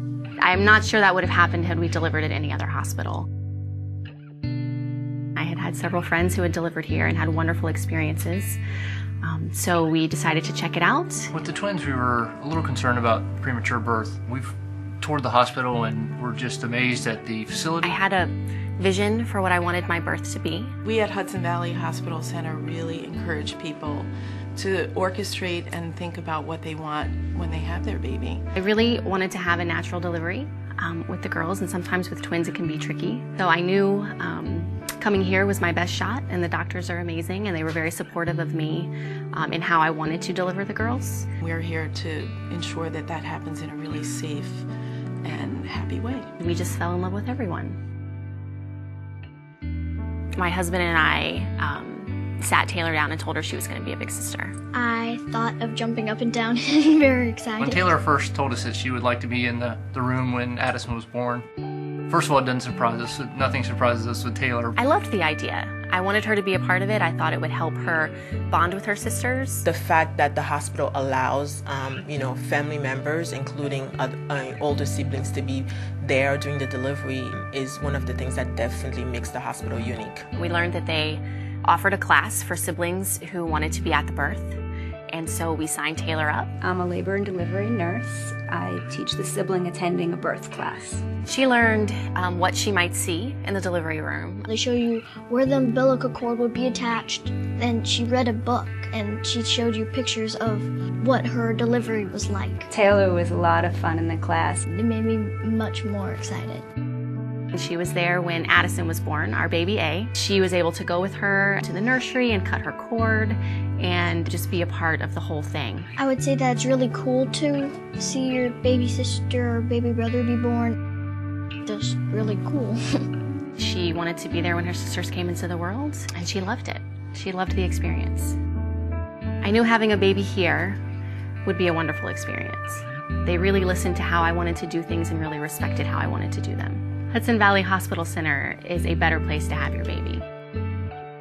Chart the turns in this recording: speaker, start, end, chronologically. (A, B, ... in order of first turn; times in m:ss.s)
0:00.4-0:03.3 A
0:05.3-0:08.6 A
0:09.2-0:11.3 A
0:11.3-0:18.0 B
0:17.8-0:20.7 A
0:20.8-0:28.4 C
0:28.5-0:41.3 A
0:41.4-0:44.6 C
0:45.2-0:46.3 C
0:46.4-0:47.8 A
0:50.4-0:54.5 A
0:54.7-0:58.0 D
0:57.6-1:01.4 B
1:02.1-1:04.8 B
1:04.8-1:09.6 A
1:09.6-1:20.2 E
1:20.3-1:24.6 A
1:25.1-1:26.5 A
1:26.6-1:31.0 F
1:31.2-1:34.5 A
1:34.5-1:42.7 D
1:42.7-1:44.6 F
1:44.7-1:46.6 D
1:47.5-1:55.9 A
1:56.0-2:00.8 D
2:01.6-2:03.0 D
2:03.6-2:08.4 A
2:09.4-2:10.8 A
2:11.4-2:20.2 A